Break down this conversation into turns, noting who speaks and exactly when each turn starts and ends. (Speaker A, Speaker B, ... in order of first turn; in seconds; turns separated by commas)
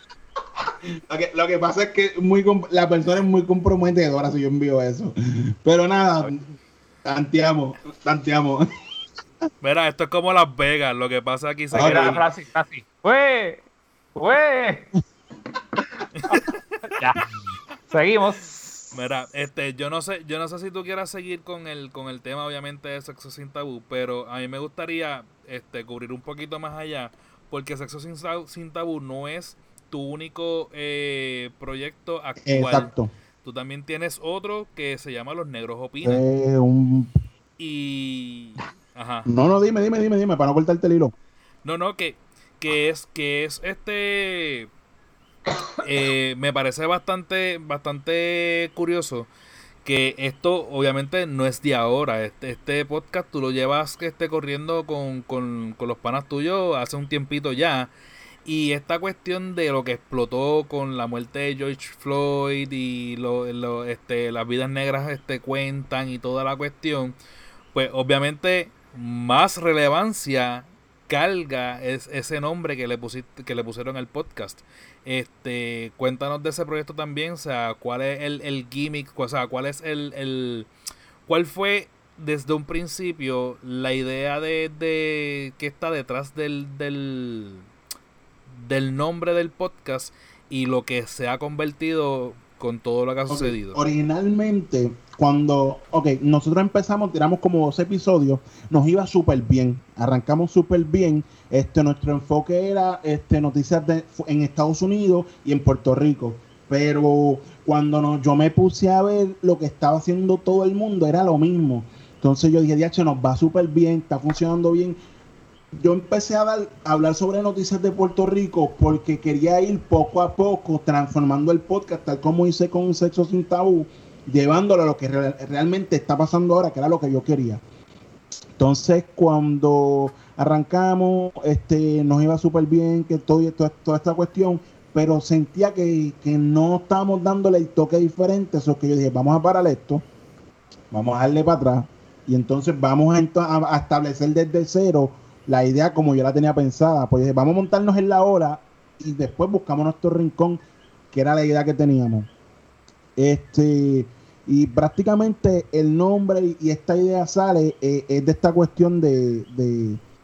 Speaker A: 1.1-6.5, Speaker A: 7.0-8.7, Speaker B: 9.6-12.2, Speaker A: 11.7-12.2, Speaker C: 11.7-13.6, Speaker C: 14.1-14.9, Speaker B: 16.2-16.4, Speaker C: 16.3-17.2, Speaker C: 17.9-18.9, Speaker B: 18.9-32.9, Speaker A: 32.4-33.1, Speaker B: 33.4-36.2, Speaker A: 36.0-37.1, Speaker B: 37.6-39.3, Speaker A: 39.2-41.1, Speaker B: 41.6-44.7, Speaker B: 45.8-49.3, Speaker B: 49.8-57.9, Speaker B: 58.5-67.2, Speaker B: 67.7-80.7, Speaker B: 81.3-87.7, Speaker B: 88.5-93.8, Speaker A: 93.3-115.0, Speaker A: 115.8-127.6, Speaker A: 128.6-140.0, Speaker A: 140.9-152.3, Speaker A: 153.2-160.0